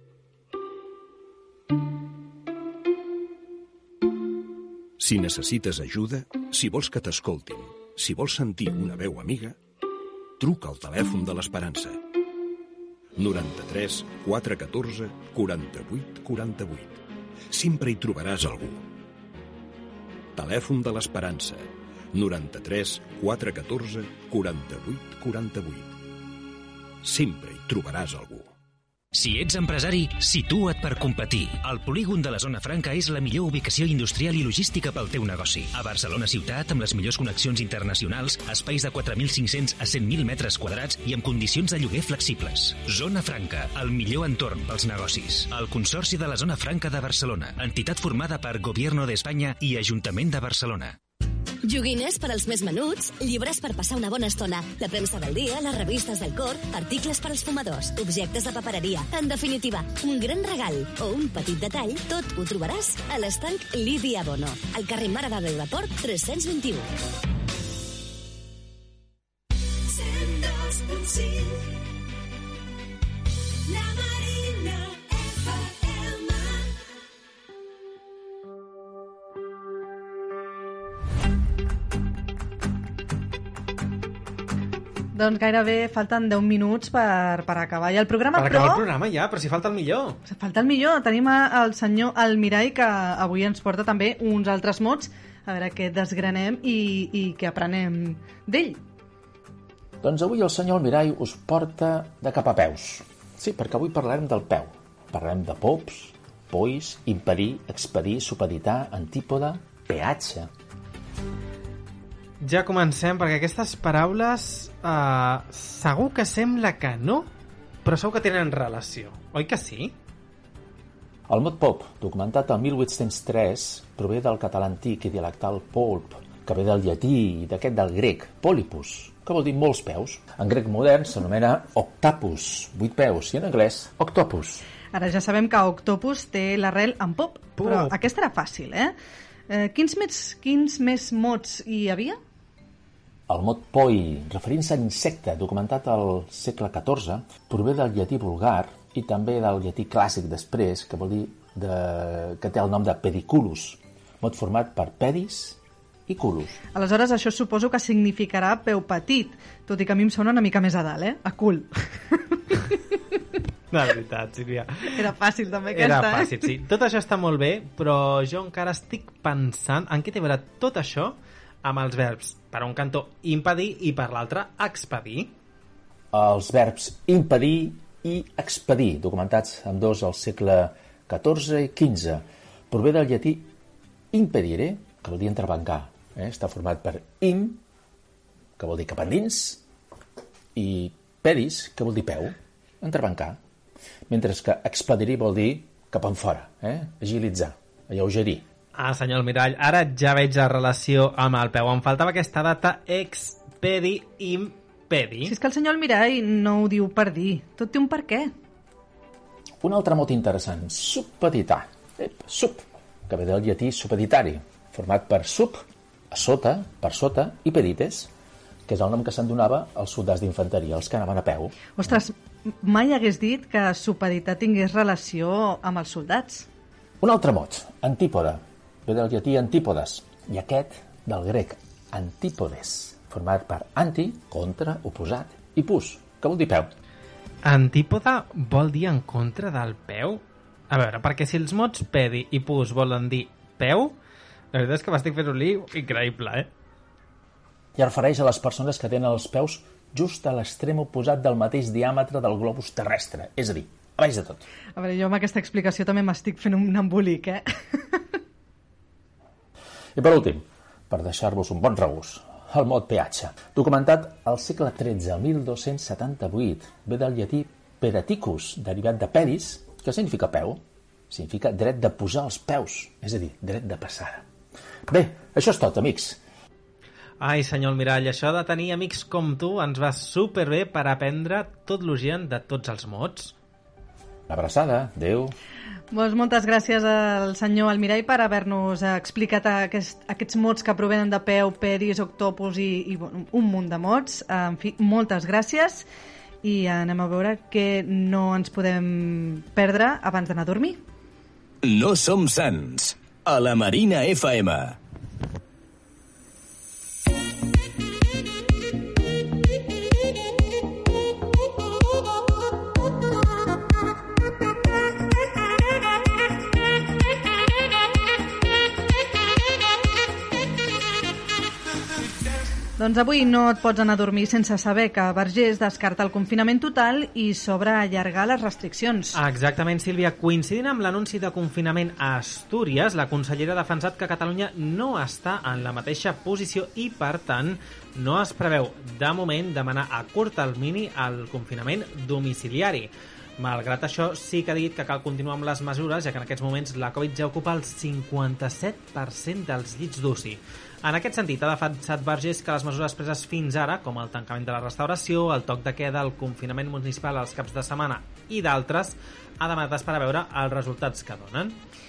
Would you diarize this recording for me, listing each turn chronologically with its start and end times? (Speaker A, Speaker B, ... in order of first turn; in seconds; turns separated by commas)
Speaker A: 5.0-9.6, Speaker A: 10.4-12.0, Speaker A: 13.2-18.9, Speaker A: 20.3-26.0, Speaker A: 27.0-28.5, Speaker B: 29.1-51.0, Speaker C: 51.6-66.9, Speaker C: 69.8-71.8, Speaker C: 73.7-76.6, Speaker D: 85.1-88.9, Speaker E: 88.3-90.2, Speaker D: 90.2-98.8, Speaker F: 100.0-110.5, Speaker E: 112.4-117.3, Speaker E: 117.8-119.9, Speaker F: 121.3-134.6, Speaker D: 134.9-138.9, Speaker E: 137.6-137.9, Speaker D: 139.5-142.2, Speaker F: 143.3-156.6, Speaker D: 156.7-162.8, Speaker E: 163.7-165.1, Speaker D: 164.9-166.5, Speaker E: 165.7-175.3, Speaker F: 176.1-183.5, Speaker F: 184.1-187.6, Speaker F: 188.6-189.6, Speaker F: 190.5-193.4, Speaker F: 194.1-198.4, Speaker E: 198.7-205.3, Speaker D: 205.2-208.3, Speaker F: 209.6-218.1, Speaker F: 218.7-221.8, Speaker D: 221.8-226.5, Speaker F: 227.0-236.7, Speaker E: 237.4-243.9, Speaker E: 244.5-246.5, Speaker F: 247.8-254.4, Speaker D: 254.8-258.0, Speaker F: 259.9-274.2, Speaker F: 274.9-276.2, Speaker E: 277.2-283.3, Speaker F: 284.3-285.3, Speaker D: 285.9-295.8, Speaker D: 296.4-300.8, Speaker G: 301.6-304.8, Speaker D: 322.8-329.2, Speaker E: 329.1-361.6